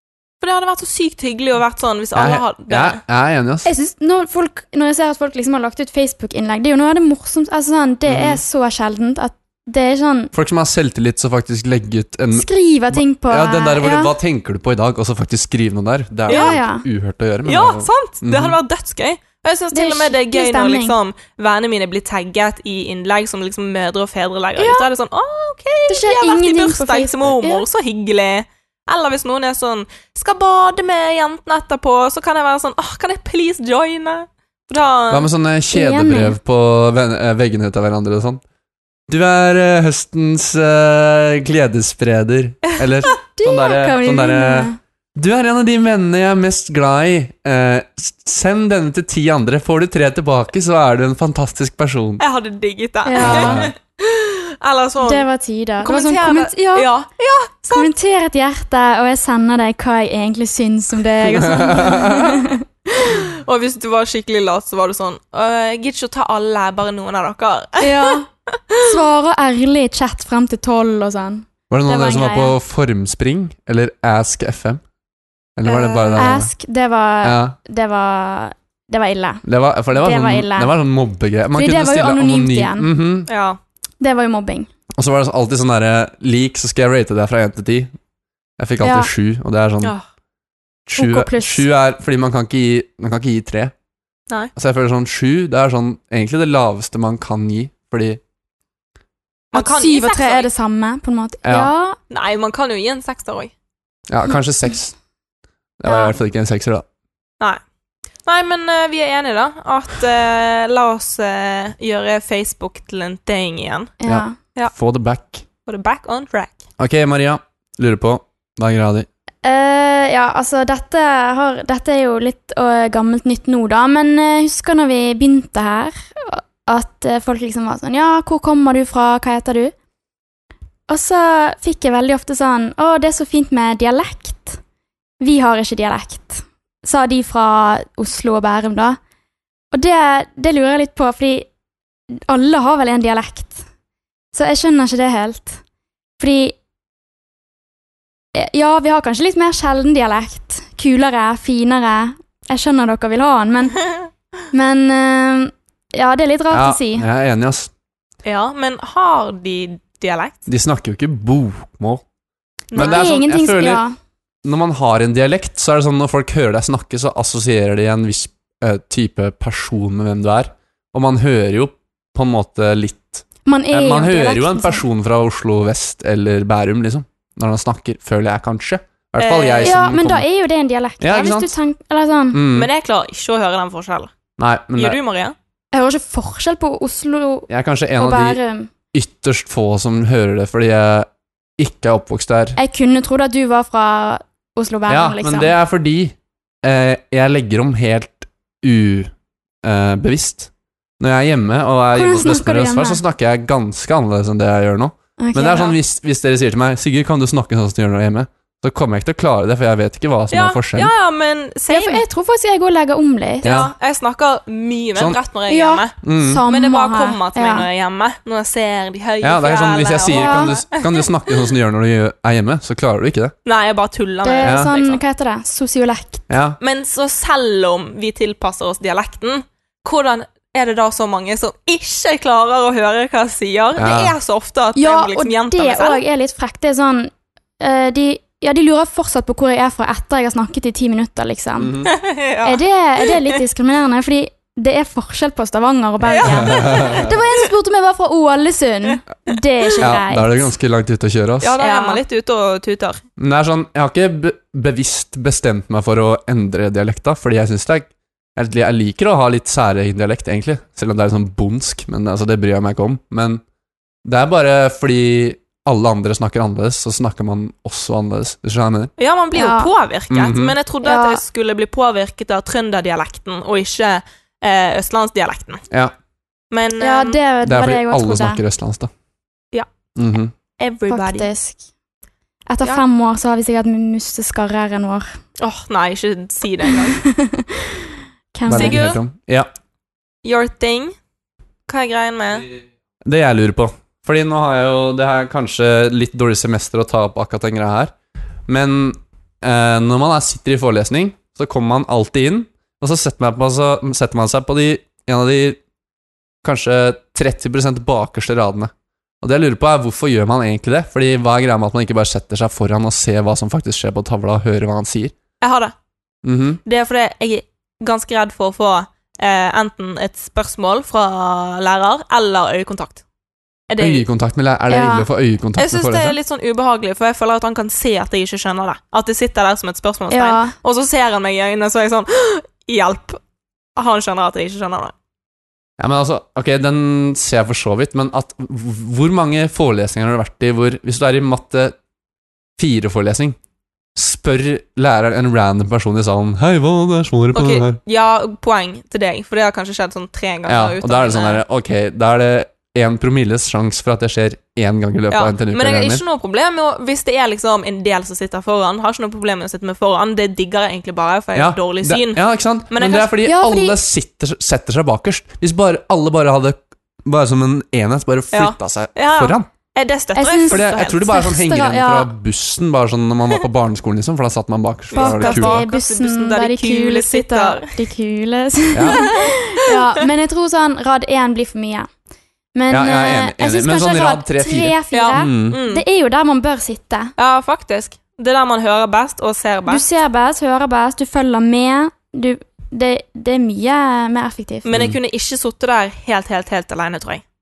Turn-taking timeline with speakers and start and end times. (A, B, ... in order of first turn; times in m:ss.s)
0:00.4-0:03.0 A
0:02.2-0:03.7 B
0:03.6-0:10.3 C
0:08.1-0:08.4 B
0:10.3-0:18.6 B
0:12.3-0:14.1 C
0:16.3-0:16.6 A
0:16.3-0:16.8 C
0:17.4-0:35.3 A
0:19.7-0:21.0 C
0:24.6-0:24.9 C
0:25.9-0:27.6 C
0:35.1-0:38.4 B
0:35.7-0:36.4 C
0:39.1-0:52.2 B
0:43.4-0:44.8 C
0:52.2-0:55.2 A
0:53.0-0:53.7 C
0:53.2-0:53.7 B
0:55.0-0:56.9 C
0:55.8-0:57.9 A
0:57.7-1:02.6 C
1:01.3-1:02.3 B
1:03.1-1:08.8 A
1:07.8-1:12.5 C
1:11.7-1:14.8 B
1:15.6-1:16.5 B
1:15.6-1:16.4 A
1:16.2-1:19.4 C
1:17.2-1:17.5 B
1:19.4-1:23.3 B
1:19.9-1:20.7 C
1:21.5-1:22.9 C
1:23.3-1:23.6 A
1:24.0-1:24.7 C
1:25.0-1:27.9 B
1:28.6-1:29.9 B
1:28.8-1:29.1 C
1:30.9-1:33.7 B
1:31.0-1:31.7 C
1:34.6-1:38.2 B
1:39.5-1:40.5 A
1:39.5-1:42.0 C
1:41.4-1:41.7 B
1:42.1-1:43.5 A
1:44.1-1:44.9 B
1:45.8-1:46.8 B
1:45.8-1:46.1 C
1:48.2-1:53.9 A
1:54.0-1:54.4 C
1:54.0-1:55.4 B
1:55.7-1:56.6 A
1:56.8-1:59.1 B
1:59.4-2:09.7 C
2:10.9-2:14.6 C
2:15.2-2:19.0 C
2:19.7-2:21.5 C
2:22.2-2:23.6 C
2:24.3-2:25.6 C
2:26.2-2:26.6 C
2:28.3-2:33.8 C
2:34.5-2:37.0 C
2:36.5-2:37.7 B
2:38.2-2:40.4 A
2:40.5-2:42.0 B
2:42.7-2:43.1 A
2:42.7-2:43.8 B
2:42.7-2:43.9 C
2:44.4-3:00.2 B
2:53.4-2:54.8 C
2:59.2-2:59.8 A
2:59.6-3:02.4 C
3:01.0-3:01.5 B
3:02.3-3:02.7 B
3:02.5-3:04.1 A
3:04.4-3:05.0 B
3:04.7-3:05.3 A
3:05.7-3:08.7 C
3:07.5-3:08.4 B
3:08.9-3:12.6 B
3:12.6-3:15.5 C
3:14.9-3:19.1 B
3:19.6-3:30.9 B
3:21.9-3:23.0 C
3:25.2-3:25.8 C
3:30.3-3:32.0 A
3:31.7-3:33.5 C
3:33.4-3:33.7 B
3:33.4-3:41.1 A
3:35.5-3:37.7 C
3:36.0-3:36.4 B
3:39.2-3:43.3 B
3:40.1-3:40.6 C
3:43.4-3:45.0 A
3:44.2-3:46.3 C
3:44.4-3:44.7 B
3:46.3-3:46.6 B
3:46.6-3:56.0 A
3:53.8-3:54.2 B
3:54.7-4:01.8 C
4:01.6-4:01.9 B
4:01.8-4:03.2 A
4:02.4-4:10.5 C
4:06.0-4:07.2 A
4:06.3-4:07.1 B
4:09.8-4:11.6 B
4:11.4-4:13.0 A
4:11.6-4:12.0 C
4:13.2-4:23.4 B
4:24.0-4:28.9 B
4:29.0-4:35.6 A
4:29.3-4:29.7 C
4:30.1-4:30.6 B
4:30.8-4:31.2 C
4:36.5-4:37.2 A
4:36.8-4:38.4 C
4:37.4-4:38.9 B
4:40.0-4:40.3 B
4:40.6-4:41.3 A
4:40.9-4:41.6 C
4:42.5-4:45.2 C
4:45.4-4:47.0 A
4:46.7-4:48.9 C
4:48.5-4:49.5 B
4:48.5-4:49.0 A
4:50.2-4:50.9 A
4:51.7-4:52.5 A
4:53.0-4:57.9 B
4:58.5-5:05.6 B
5:06.4-5:15.1 B
5:15.4-5:15.7 A
5:16.2-5:16.6 B
5:16.6-5:23.0 A
5:23.7-5:24.0 A
5:23.8-5:26.2 B
5:24.7-5:25.0 C
5:25.6-5:33.2 A
5:30.1-5:30.5 C
5:33.8-5:34.9 A
5:35.8-5:41.8 B
5:42.6-5:43.4 B
5:44.0-5:47.8 B
5:47.3-5:51.4 A
5:50.5-5:56.0 B
5:55.1-6:03.1 A
6:01.3-6:09.5 B
6:03.2-6:03.8 C
6:08.3-6:11.0 A
6:10.1-6:12.1 C
6:10.5-6:15.6 B
6:14.9-6:17.7 A
6:14.9-6:21.9 C
6:18.7-6:19.0 B
6:18.9-6:19.7 A
6:22.5-6:27.1 C
6:22.7-6:25.6 B
6:24.9-6:25.8 A
6:27.2-6:29.8 A
6:29.7-6:34.7 C
6:34.6-6:37.2 A
6:34.7-6:35.0 B